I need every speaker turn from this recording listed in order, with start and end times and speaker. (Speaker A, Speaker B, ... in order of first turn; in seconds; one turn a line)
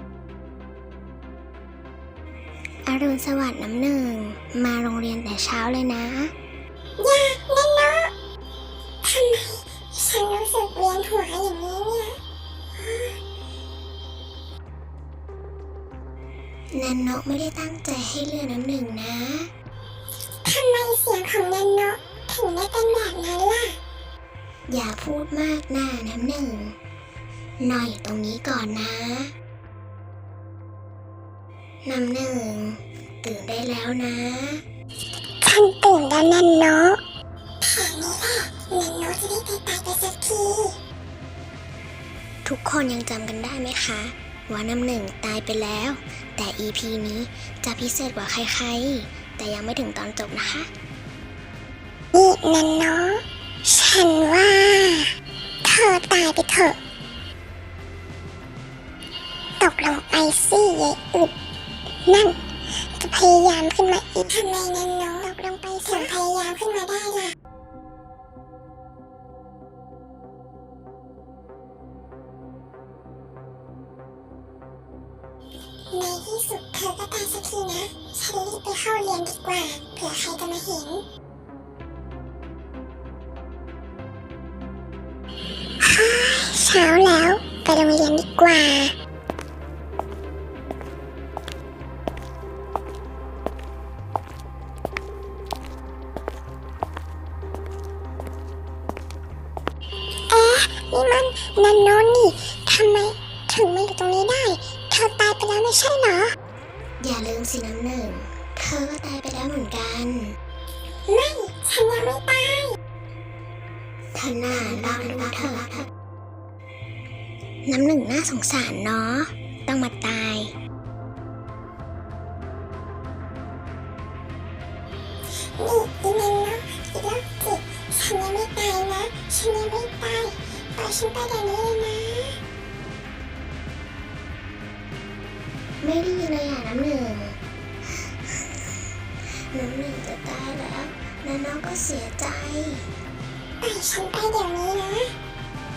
Speaker A: 2.9-6.3
Speaker B: 7.0-8.1
Speaker B: 9.0-12.2
Speaker B: 12.8-13.1
Speaker A: 16.7-19.5
Speaker B: 20.4-23.8
Speaker A: 24.7-26.8
Speaker A: 27.6-29.3
Speaker A: 31.8-34.6
Speaker B: 35.4-37.0
Speaker B: 37.6-40.8
Speaker A: 42.5-50.7
Speaker B: 52.1-55.1
Speaker B: 55.6-56.8
Speaker B: 59.6-61.3
Speaker B: 62.0-62.4
Speaker B: 62.9-67.3
Speaker B: 75.9-81.0
Speaker B: 85.8-88.9
Speaker B: 100.3-106.3
Speaker A: 107.0-110.4
Speaker B: 111.1-112.8
Speaker A: 114.1-115.9
Speaker A: 117.7-120.5
Speaker B: 125.6-132.4
Speaker A: 135.8-137.4
Speaker A: 138.2-138.7
Speaker A: 139.3-142.9
Speaker B: 143.6-145.1